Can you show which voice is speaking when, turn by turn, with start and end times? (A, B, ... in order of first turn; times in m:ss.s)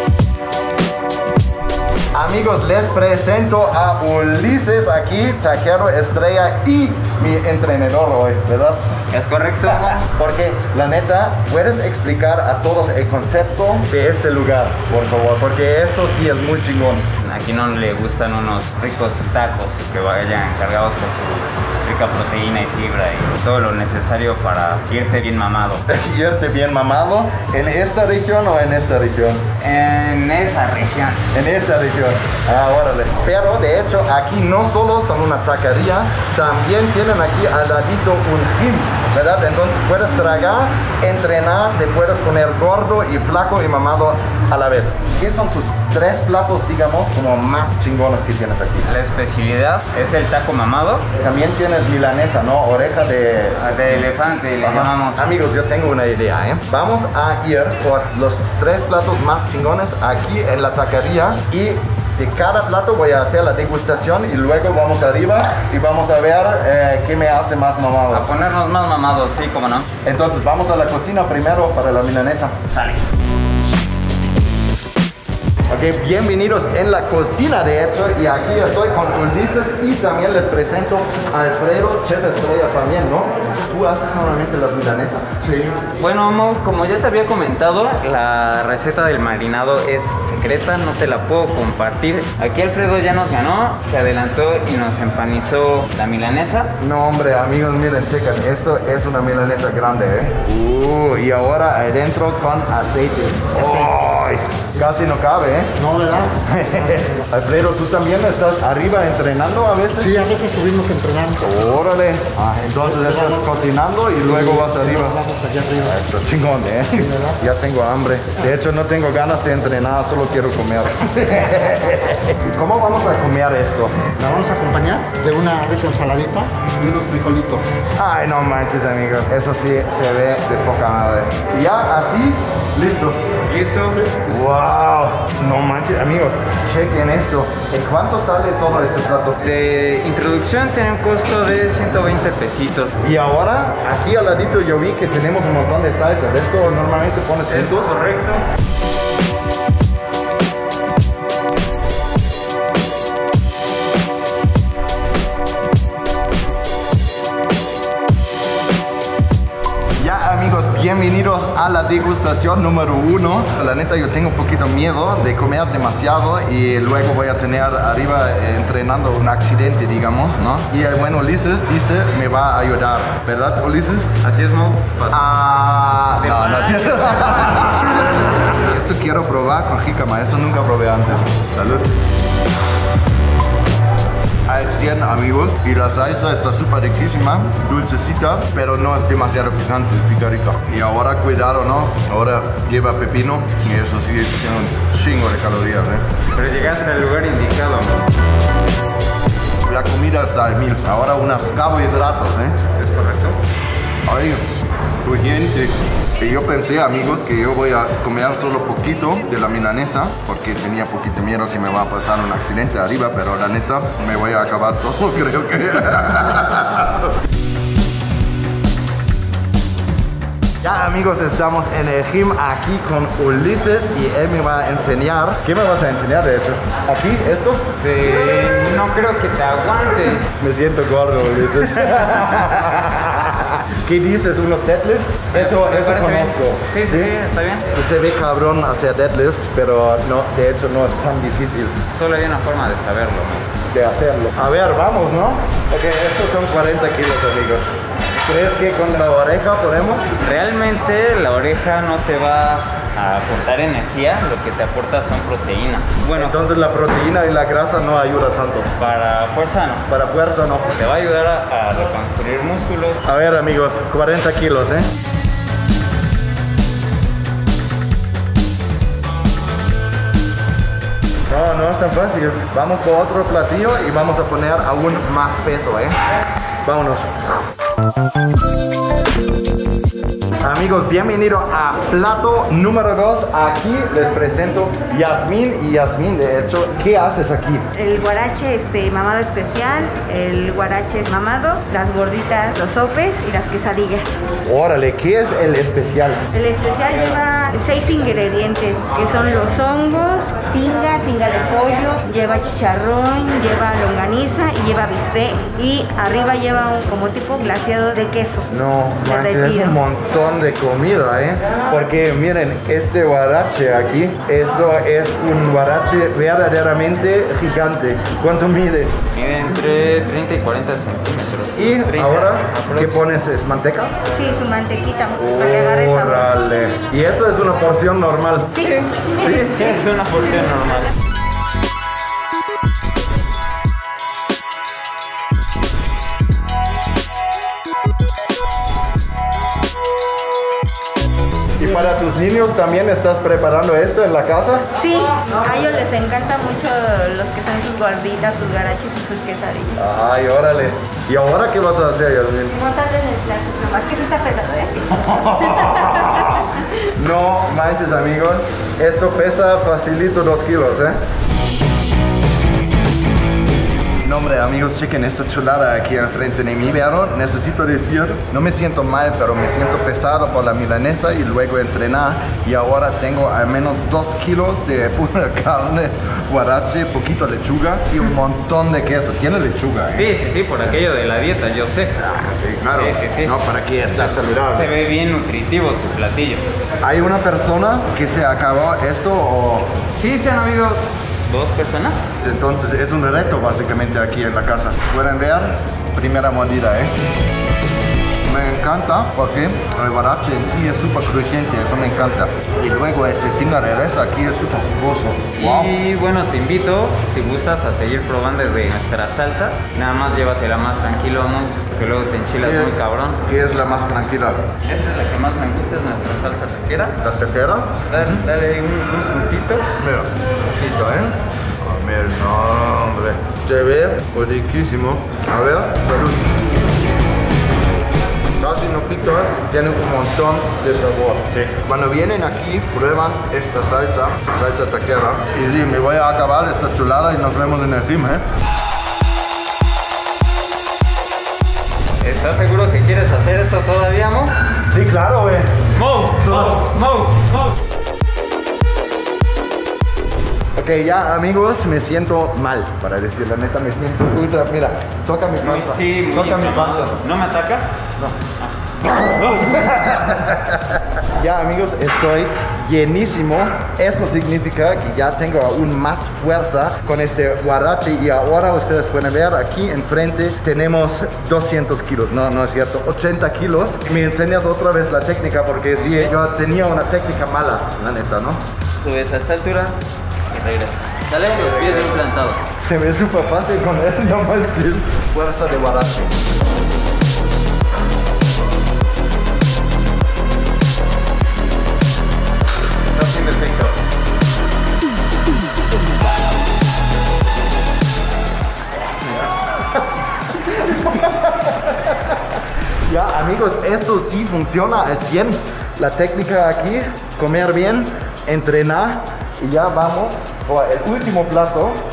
0:02.1-0:08.9 A
0:09.1-0:10.0 B
0:09.6-0:17.1 A
0:17.2-0:25.8 B
0:25.9-0:29.4 A
0:29.6-0:31.2 B
0:31.3-0:48.9 A
0:48.8-0:51.1 B
0:51.2-0:53.8 A
0:53.6-0:55.3 B
0:54.6-1:08.3 A
1:08.1-1:09.9 B
1:10.0-1:12.6 A
1:12.7-1:13.0 B
1:15.7-1:25.7 A
1:26.0-1:36.7 B
1:36.8-1:50.2 A
1:45.8-1:46.3 C
1:50.1-1:51.4 C
1:51.4-2:04.3 A
1:53.0-1:53.4 C
1:54.4-1:55.9 C
1:57.0-1:57.3 C
2:04.2-2:07.7 C
2:08.0-2:13.2 A
2:13.5-2:14.1 B
2:14.2-2:19.4 A
2:19.4-2:23.0 B
2:23.0-2:27.9 A
2:27.5-2:28.4 B
2:40.0-2:54.1 A
2:54.2-2:55.2 B
2:55.1-3:01.9 A
2:56.2-2:58.0 B
3:04.5-3:16.0 A
3:16.4-3:18.0 B
3:19.6-3:22.6 A
3:22.8-3:23.4 B
3:24.1-3:24.4 A
3:25.0-3:37.1 A
3:40.6-3:47.6 A
3:47.8-3:50.3 B
3:50.3-3:57.1 A
3:51.4-3:51.9 B
3:55.3-3:57.7 B
3:57.7-4:01.8 A
4:01.9-4:03.5 B
4:03.7-4:07.7 A
4:08.2-4:10.1 A
4:10.2-4:16.4 B
4:16.1-4:18.7 A
4:18.8-4:19.9 B
4:19.9-4:20.7 A
4:20.7-4:23.0 B
4:23.0-4:24.9 A
4:31.3-4:36.0 A
4:36.6-4:37.3 A
4:40.4-4:47.7 A
4:47.7-4:54.2 D
4:54.5-4:56.2 A
4:56.3-5:08.5 D
5:08.5-5:18.9 A
5:09.1-5:09.8 D
5:19.2-5:23.0 B
5:21.6-5:24.0 A
5:24.1-5:26.3 D
5:25.2-5:28.6 A
5:28.7-5:30.9 B
5:41.6-5:44.6 A
5:44.8-5:49.8 D
5:49.8-5:52.6 A
5:52.5-5:56.7 D
5:54.9-6:01.0 A
6:04.0-6:20.1 A
6:19.9-6:22.2 B
6:22.0-6:24.7 A
6:22.7-6:23.4 B
6:23.9-6:26.4 B
6:26.8-6:29.7 A
6:30.0-6:32.0 B
6:32.2-6:36.9 A
6:38.2-6:45.8 A
6:45.4-6:53.2 B
6:52.4-6:54.4 A
6:54.6-6:57.0 B
6:57.0-6:58.2 A
6:57.9-6:59.7 B
6:59.8-7:06.3 A
7:08.4-7:18.2 A
7:22.0-7:24.3 B
7:24.7-7:25.7 A
7:25.8-7:27.5 B
7:26.2-7:26.7 A
7:30.6-7:37.0 A
7:35.4-7:37.7 B
7:38.4-7:39.7 B
7:39.1-7:58.4 A
7:55.8-7:56.1 B
7:58.8-7:59.8 B
8:00.3-8:02.4 B
8:01.3-8:02.0 A
8:02.5-8:06.2 A
8:12.9-8:13.8 B
8:19.2-8:19.6 A
8:20.3-8:22.2 A
8:22.9-8:31.8 A